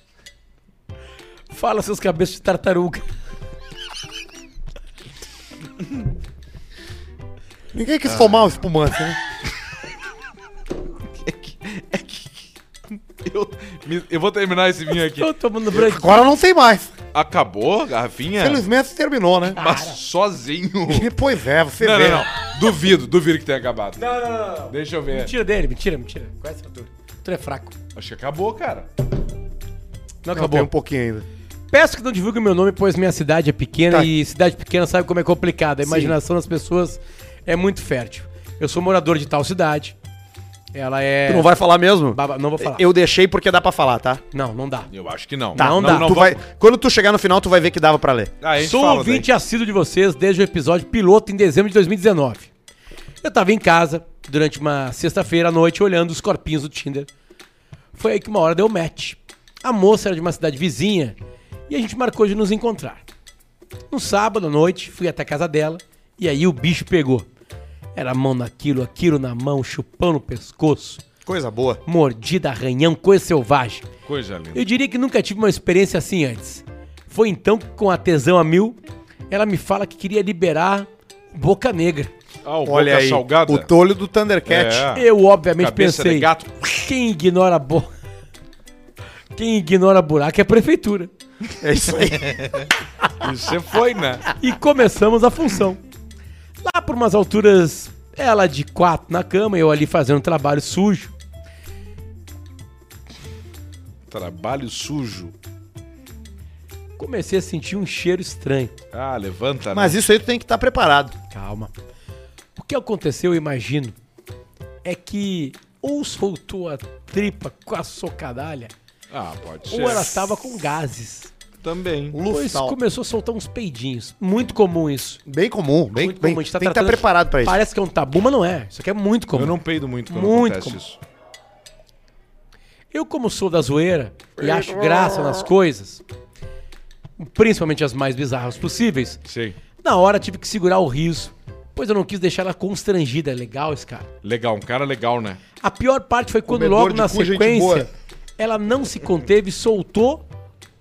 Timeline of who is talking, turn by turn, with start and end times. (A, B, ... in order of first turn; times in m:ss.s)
0:01.5-0:03.1 A
0:07.7-0:09.2 B
0:11.2-0:15.3 C
0:15.2-0:16.3 A
0:15.8-0:16.9 B
0:17.1-0:18.7 C
0:18.4-0:19.6 B
0:19.5-0:21.1 C
0:19.6-0:20.0 A
0:20.9-0:22.3 B
0:21.8-0:24.0 C
0:24.0-0:27.8 A
0:24.7-0:25.3 C
0:28.0-0:28.9 C
0:30.2-0:30.7 A
0:30.3-0:31.3 B
0:31.7-0:40.0 A
0:35.8-0:36.2 B
0:40.7-0:41.5 A
0:41.3-0:44.2 B
0:42.1-0:42.8 A
0:44.3-0:44.9 A
0:44.9-0:46.4 C
0:45.6-0:46.1 A
0:45.6-0:48.3 B
0:48.4-0:49.3 C
0:48.6-0:52.5 A
0:53.2-0:57.1 A
0:57.9-1:01.2 A
1:01.7-1:03.0 A
1:03.9-1:07.3 A
1:08.0-1:11.0 A
1:11.2-1:11.8 B
1:11.8-1:13.8 A
1:14.1-1:14.6 C
1:14.5-1:18.8 A
1:19.3-1:22.1 A
1:22.4-1:23.7 C
1:22.7-1:24.9 B
1:24.5-1:25.0 C
1:24.9-1:27.9 A
1:25.6-1:26.6 C
1:29.3-1:31.1 A
1:31.6-1:32.7 B
1:32.2-1:32.7 C
1:33.2-1:34.4 C
1:34.4-1:35.8 A
1:36.6-1:41.1 A
1:44.1-1:45.4 C
1:47.0-1:48.7 A
1:48.9-1:50.0 C
1:49.7-1:51.2 B
1:51.3-1:51.7 A
1:52.6-1:54.0 A
1:54.8-1:58.7 A
1:59.1-2:00.2 C
1:59.6-2:01.3 A
2:01.6-2:02.2 C
2:02.1-2:02.8 B
2:02.3-2:05.2 A
2:05.3-2:07.6 B
2:06.0-2:09.6 A
2:09.4-2:11.0 C
2:10.1-2:10.8 A
2:12.9-2:16.0 A
2:14.4-2:15.5 B
2:17.2-2:19.2 A
2:19.3-2:19.6 C
2:19.8-2:24.1 A
2:24.2-2:25.4 C
2:25.6-2:30.2 A
2:26.5-2:27.9 B